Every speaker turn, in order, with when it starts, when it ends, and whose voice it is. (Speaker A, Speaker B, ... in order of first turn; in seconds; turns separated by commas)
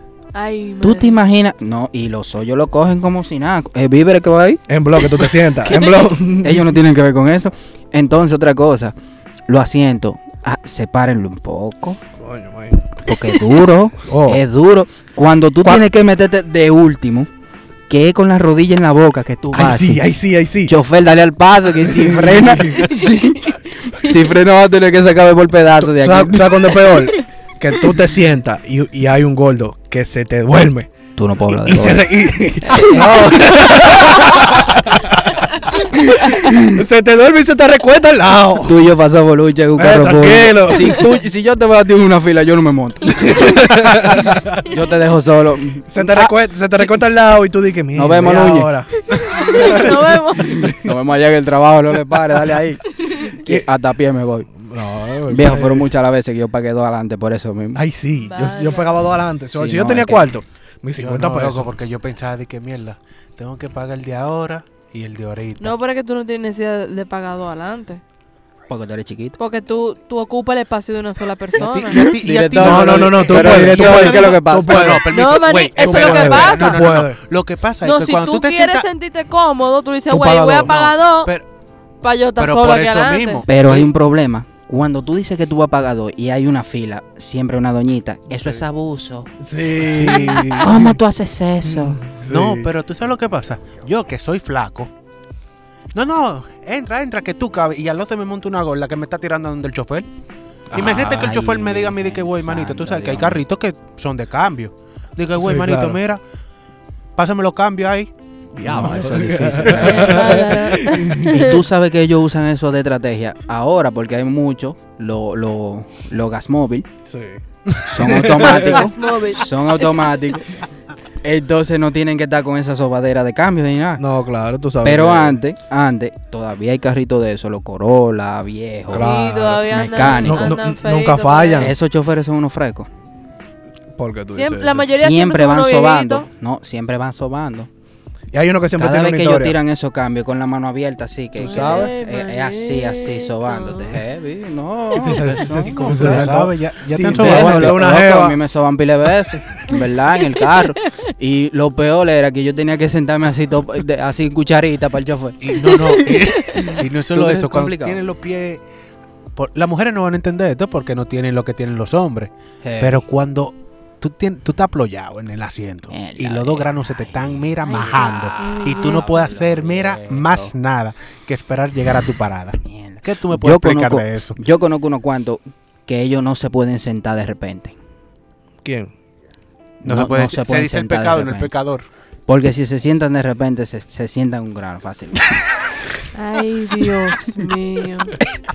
Speaker A: 0.3-1.2, Speaker B: 0.8-8.9, Speaker C: 4.7-6.7, Speaker B: 9.5-12.0, Speaker C: 12.2-13.4, Speaker B: 13.1-17.3, Speaker C: 14.0-14.4, Speaker B: 17.9-20.1, Speaker C: 19.5-20.7, Speaker B: 20.7-26.6, Speaker C: 21.8-23.0, Speaker C: 25.8-30.9, Speaker B: 31.2-32.1, Speaker C: 31.5-38.9, Speaker B: 32.7-34.2, Speaker A: 32.7-33.0, Speaker B: 36.3-36.8, Speaker B: 38.7-46.9, Speaker C: 39.8-41.0, Speaker C: 43.2-44.7, Speaker C: 45.9-50.9, Speaker B: 48.0-48.7, Speaker A: 49.1-50.6, Speaker B: 49.4-54.5, Speaker C: 54.5-55.9, Speaker B: 55.3-57.8, Speaker C: 57.7-61.8, Speaker A: 58.3-59.0, Speaker B: 59.5-60.3, Speaker D: 61.0-65.8, Speaker A: 65.6-68.0, Speaker B: 68.7-69.4, Speaker A: 69.4-72.0, Speaker D: 71.5-78.9, Speaker B: 72.0-75.0, Speaker C: 72.5-75.0, Speaker A: 75.1-76.8, Speaker C: 75.8-77.2, Speaker A: 77.8-81.3, Speaker C: 80.1-80.8, Speaker D: 80.6-81.5, Speaker A: 82.0-83.5, Speaker D: 82.4-83.9, Speaker B: 83.5-89.3, Speaker C: 89.4-91.0, Speaker B: 89.9-92.0, Speaker C: 91.7-92.7, Speaker D: 92.2-94.9, Speaker D: 95.9-100.1, Speaker D: 100.7-106.2, Speaker C: 100.7-101.2, Speaker B: 100.9-103.4, Speaker C: 105.4-106.0, Speaker D: 107.2-108.1, Speaker C: 108.5-111.4, Speaker B: 108.7-116.9, Speaker A: 109.8-111.6, Speaker C: 117.1-118.8, Speaker B: 117.8-120.6, Speaker A: 118.2-120.1, Speaker B: 121.2-124.0, Speaker C: 124.0-125.4, Speaker B: 124.8-130.6, Speaker C: 128.9-131.7, Speaker A: 128.9-131.7, Speaker B: 131.6-132.9, Speaker C: 134.0-134.9, Speaker A: 134.3-136.3, Speaker B: 135.0-137.7, Speaker C: 138.3-139.6, Speaker B: 138.8-146.4, Speaker C: 141.4-141.9, Speaker A: 141.4-144.0, Speaker C: 144.9-148.4, Speaker D: 145.2-147.8, Speaker B: 146.9-158.0, Speaker D: 155.4-158.6, Speaker A: 156.3-156.8, Speaker D: 159.4-174.4, Speaker B: 162.6-163.0, Speaker B: 165.9-170.5, Speaker A: 167.6-169.3, Speaker B: 172.6-177.8, Speaker C: 178.6-178.9, Speaker B: 179.8-181.5, Speaker D: 179.8-181.9, Speaker B: 182.3-185.6, Speaker A: 186.1-188.2